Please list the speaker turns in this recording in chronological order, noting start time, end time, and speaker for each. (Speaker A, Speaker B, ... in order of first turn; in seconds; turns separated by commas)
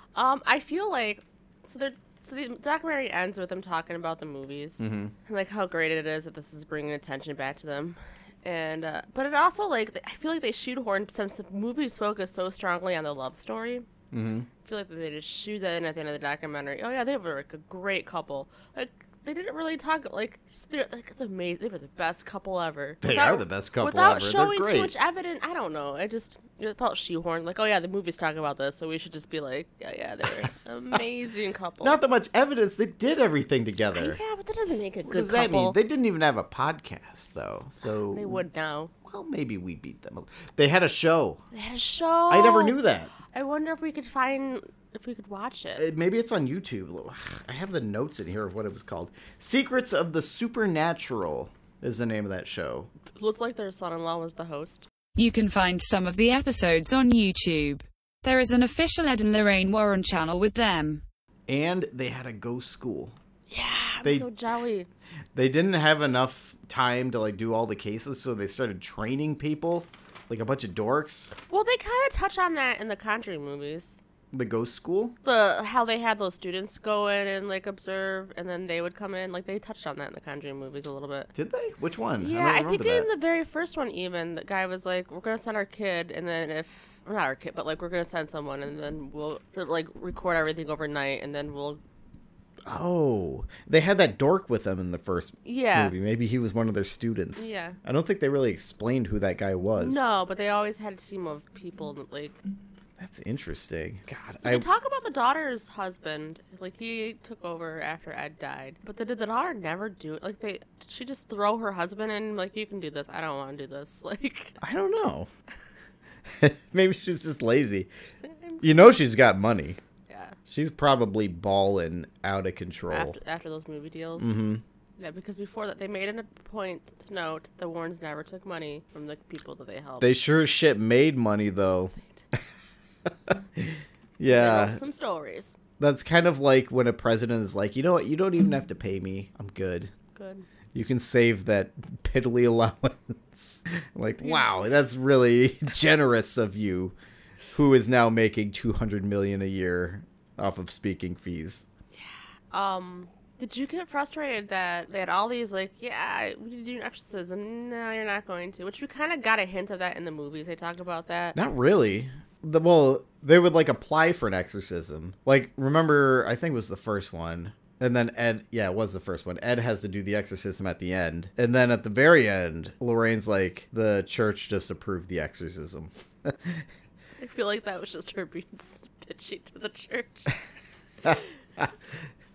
Speaker A: 0.1-13.9, Speaker B: 4.8-5.1, Speaker B: 14.1-14.5, Speaker A: 14.6-32.0, Speaker B: 23.0-24.9, Speaker B: 31.8-34.2, Speaker A: 33.9-35.8, Speaker B: 35.1-38.4, Speaker A: 38.1-38.9, Speaker B: 39.0-41.4, Speaker A: 41.5-42.8, Speaker B: 42.3-43.1, Speaker A: 43.3-45.9, Speaker B: 45.8-52.9, Speaker A: 53.1-54.9, Speaker C: 55.1-61.0, Speaker B: 61.5-63.1, Speaker A: 63.5-64.9, Speaker B: 65.3-71.3, Speaker A: 71.4-74.0, Speaker B: 74.3-75.2, Speaker A: 75.2-81.3, Speaker B: 81.3-83.1, Speaker A: 82.2-91.8, Speaker B: 92.7-100.0, Speaker A: 95.4-95.9, Speaker A: 97.4-97.8, Speaker A: 99.8-102.4, Speaker B: 103.0-104.7, Speaker A: 104.4-114.5, Speaker B: 114.6-115.3, Speaker B: 116.3-117.9, Speaker A: 118.2-118.7, Speaker B: 118.6-119.8, Speaker A: 120.1-120.4, Speaker B: 120.5-123.2, Speaker A: 122.9-124.4, Speaker B: 124.2-124.6, Speaker A: 125.0-130.1, Speaker B: 130.0-132.4, Speaker B: 133.1-134.8, Speaker A: 134.3-135.6, Speaker B: 135.8-139.9, Speaker A: 140.1-140.4, Speaker B: 140.7-146.9, Speaker B: 147.5-151.6, Speaker A: 151.9-161.4, Speaker B: 161.3-176.7, Speaker A: 177.2-180.4, Speaker B: 181.0-181.7